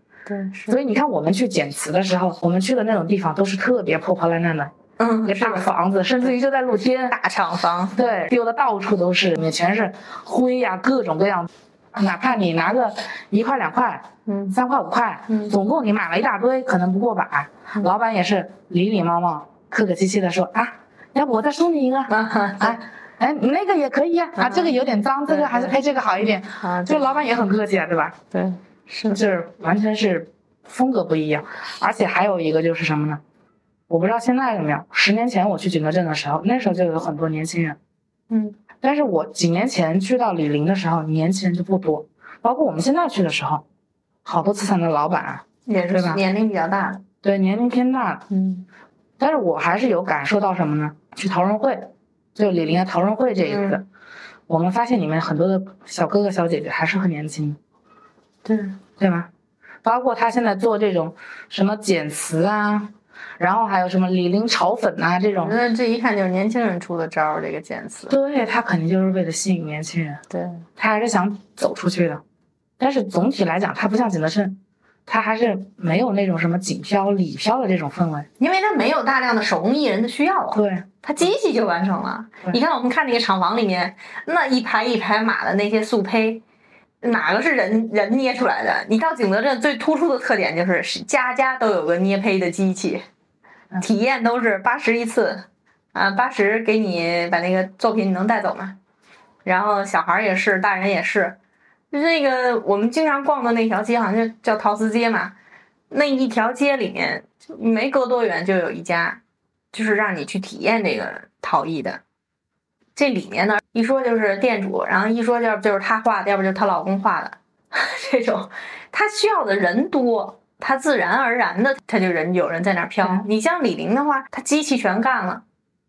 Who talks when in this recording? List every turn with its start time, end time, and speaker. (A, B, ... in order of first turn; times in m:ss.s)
0:00.3-0:00.8 A
0:00.7-0:04.7 B
0:05.0-0:05.7 A
0:05.2-0:07.2 B
0:07.1-0:08.0 A
0:07.9-0:28.2 B
0:14.2-0:14.5 A
0:22.1-0:22.8 A
0:24.4-0:24.7 A
0:25.3-0:25.7 A
0:26.6-0:27.2 A
0:28.3-0:29.2 A
0:29.1-0:33.2 B
0:33.9-0:37.8 B
0:38.3-0:38.6 A
0:38.8-0:43.6 B
0:44.2-0:46.2 B
0:45.6-0:47.0 A
0:47.2-0:48.2 B
0:48.3-0:48.6 A
0:49.2-0:53.8 B
0:53.4-0:53.8 A
0:54.5-0:57.6 B
0:58.4-0:58.8 A
0:59.0-0:59.3 B
0:59.8-1:05.5 B
1:05.4-1:08.2 A
1:08.1-1:10.2 B
1:10.3-1:10.6 A
1:10.8-1:12.2 B
1:12.8-1:18.3 B
1:18.4-1:26.4 A
1:20.5-1:20.8 B
1:27.0-1:33.0 A
1:33.8-1:38.8 A
1:39.4-1:41.4 A
1:41.9-1:45.3 A
1:45.9-1:49.2 A
1:49.7-1:52.0 A
1:53.0-2:05.4 A